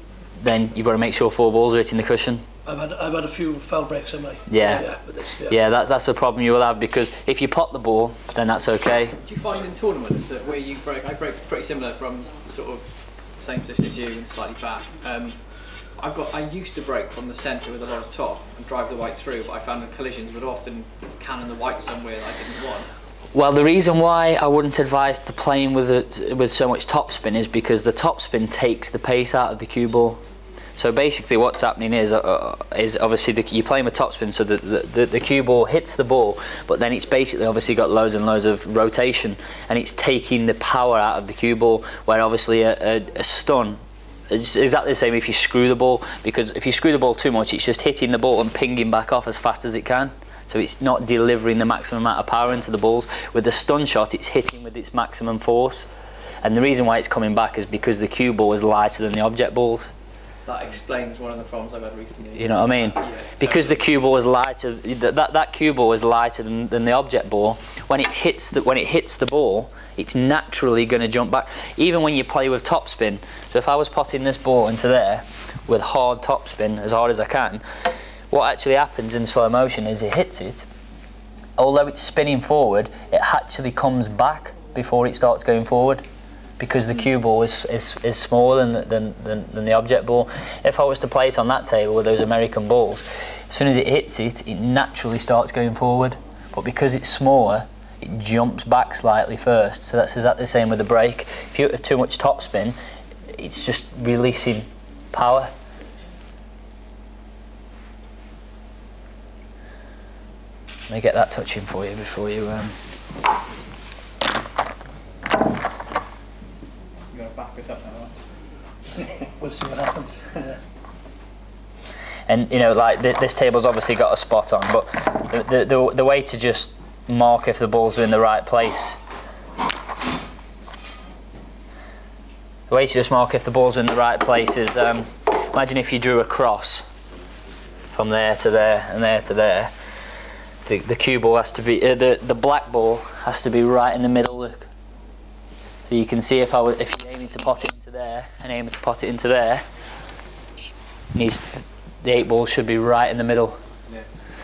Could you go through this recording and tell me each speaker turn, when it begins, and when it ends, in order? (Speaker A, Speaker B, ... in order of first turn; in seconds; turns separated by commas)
Speaker A: 0.4-2.4, Speaker B: 2.6-5.6, Speaker A: 4.5-4.9, Speaker A: 5.4-9.2, Speaker C: 9.2-23.0, Speaker A: 23.3-30.2, Speaker A: 30.8-43.8, Speaker A: 44.3-55.9, Speaker A: 56.4-59.9, Speaker C: 60.5-63.8, Speaker A: 62.3-77.6, Speaker A: 78.3-80.7, Speaker A: 81.6-86.0, Speaker A: 86.6-102.8, Speaker A: 103.3-105.5, Speaker A: 110.9-112.8, Speaker B: 119.2-120.6, Speaker A: 122.3-129.0, Speaker A: 132.7-136.8, Speaker A: 137.9-139.7, Speaker A: 140.6-144.7, Speaker A: 145.9-149.6, Speaker A: 151.1-153.6